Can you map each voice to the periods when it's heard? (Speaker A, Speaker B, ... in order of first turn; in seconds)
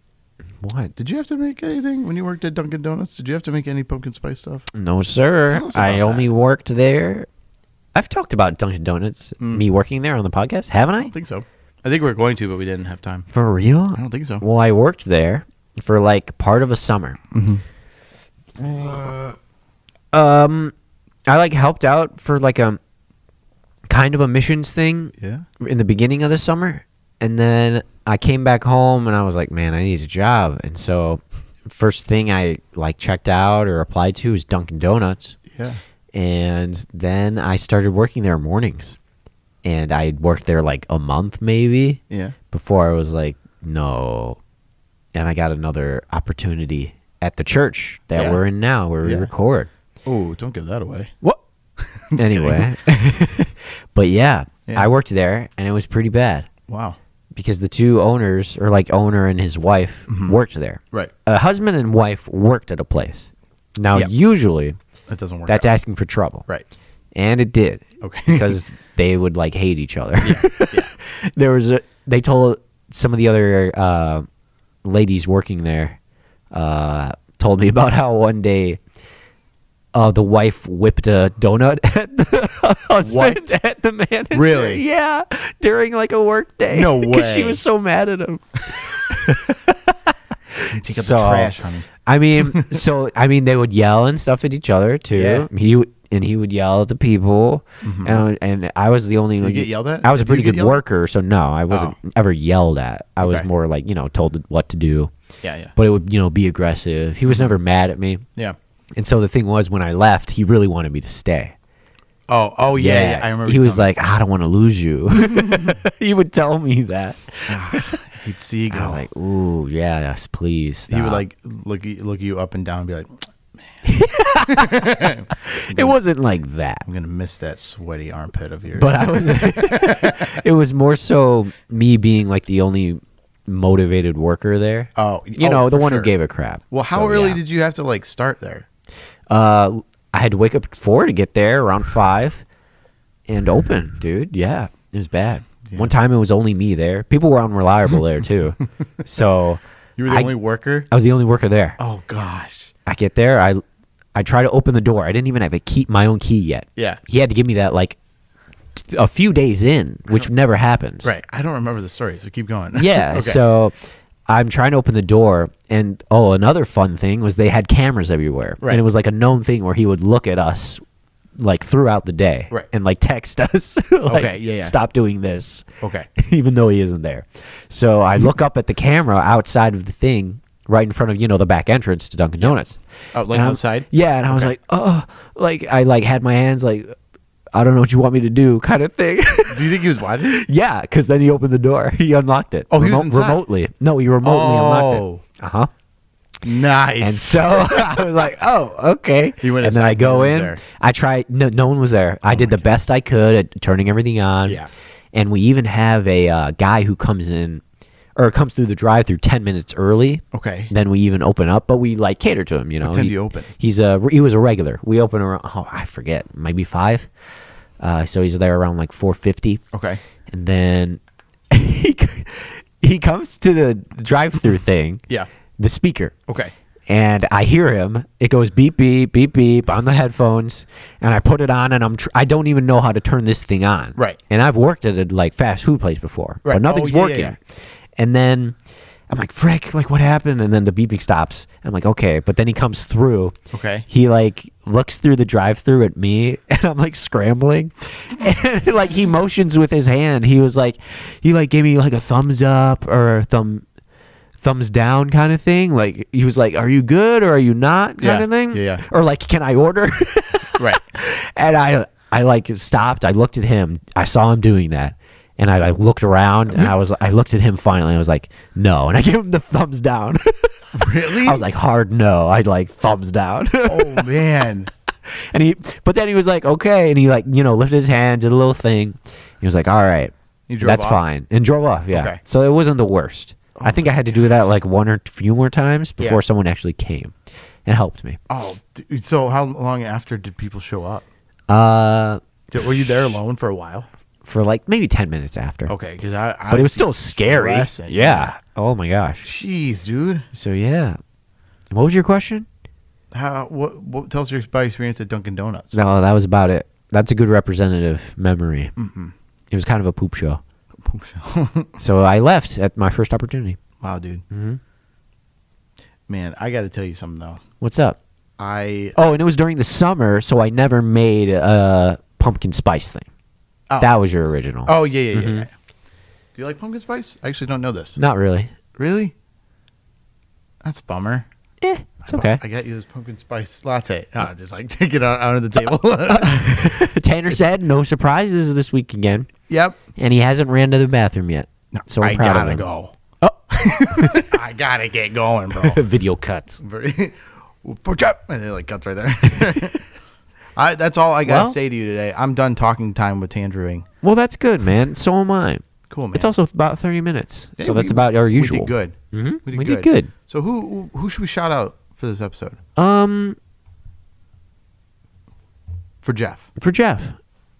Speaker A: 0.6-0.9, 4.7-7.3, 7.9-11.1, 13.3-17.2, 18.6-19.3, 20.1-20.7, 21.3-22.8, 23.9-35.4, 36.1-39.0, 39.6-44.4, 45.1-49.7, 52.2-56.5, 57.3-64.8, 65.5-66.5, 67.1-74.3, 74.8-76.0, 76.5-78.8, 79.9-89.9, 90.5-105.1, 105.7-108.2, 109.0-111.5, 112.7-118.0, 118.7-121.2, 123.8-126.8, 128.7-137.4, 139.3-142.4, 143.3-150.3, 150.9-151.8, 152.8-153.6, 154.1-158.0, 158.8-161.1, 162.7-163.8, 164.3-170.8, 171.4-182.8, 183.3-186.9, 187.5-195.7, 197.0-204.6, 205.1-207.6, 208.2-217.1, 217.8-219.6, 220.3-225.0, 225.6-226.1, 226.9-237.4, 237.9-238.6, 239.1-243.3, 243.9-253.6, 254.4-274.1, 275.2-288.2, 291.5-292.2, 294.2-295.7, 296.5-299.2, 300.3-301.0, 301.7-302.5, 305.7-308.7, 309.5-310.4, 311.8-313.6, 314.3-314.6, 317.6-318.0, 318.9-323.1, 323.8-325.4, 328.0-328.5, 331.6-332.4, 336.2-339.3, 339.9-342.6, 343.2-344.3, 345.6-346.6, 351.2-351.6, 354.0-360.1, 362.8-363.4, 366.6-367.2
Speaker B: 0.9-4.7, 5.5-6.3, 9.4-9.6, 11.0-13.3, 13.9-14.4, 17.3-17.6, 25.2-25.4, 35.5-35.8, 42.1-42.4, 48.1-48.4, 49.0-49.3, 50.0-51.1, 51.8-52.8, 56.7-57.0, 60.1-60.4, 65.1-65.7, 68.0-68.6, 70.2-70.9, 83.0-83.6, 84.3-84.8, 86.7-87.6, 90.7-92.8, 95.1-95.5, 97.8-98.2, 99.4-100.8, 101.7-102.0, 103.2-103.5, 105.4-105.7, 107.2-107.6, 112.3-113.9, 115.2-115.8, 117.5-119.0, 120.9-123.8, 124.4-126.0, 126.8-130.4, 134.9-136.1, 136.7-138.7, 145.6-145.9, 150.0-150.9, 151.8-152.7, 161.0-163.4, 168.6-168.8, 174.1-174.8, 175.8-176.1, 183.1-184.5, 189.5-190.4, 192.7-193.4, 194.2-195.2, 196.4-198.3, 199.4-200.6, 202.2-202.7, 210.3-210.7, 212.8-213.5, 219.7-220.0, 226.3-226.5, 236.4-237.3, 243.5-243.8, 258.0-258.8, 266.5-266.8, 270.7-271.4, 273.7-274.7, 280.5-281.0, 281.9-282.2, 283.6-284.2, 288.3-291.0, 292.5-293.9, 295.7-298.4, 299.2-300.2, 303.1-305.8, 308.8-309.1, 310.8-311.7, 313.8-314.2, 316.1-317.4, 318.4-319.0, 323.7-323.9, 324.6-325.5, 326.3-328.0, 328.8-329.1, 330.6-331.3, 332.0-336.8, 339.5-339.8, 341.7-343.0, 343.5-345.8, 346.6-349.8, 350.6-353.9, 355.9-356.3, 357.6-362.6, 366.0-366.5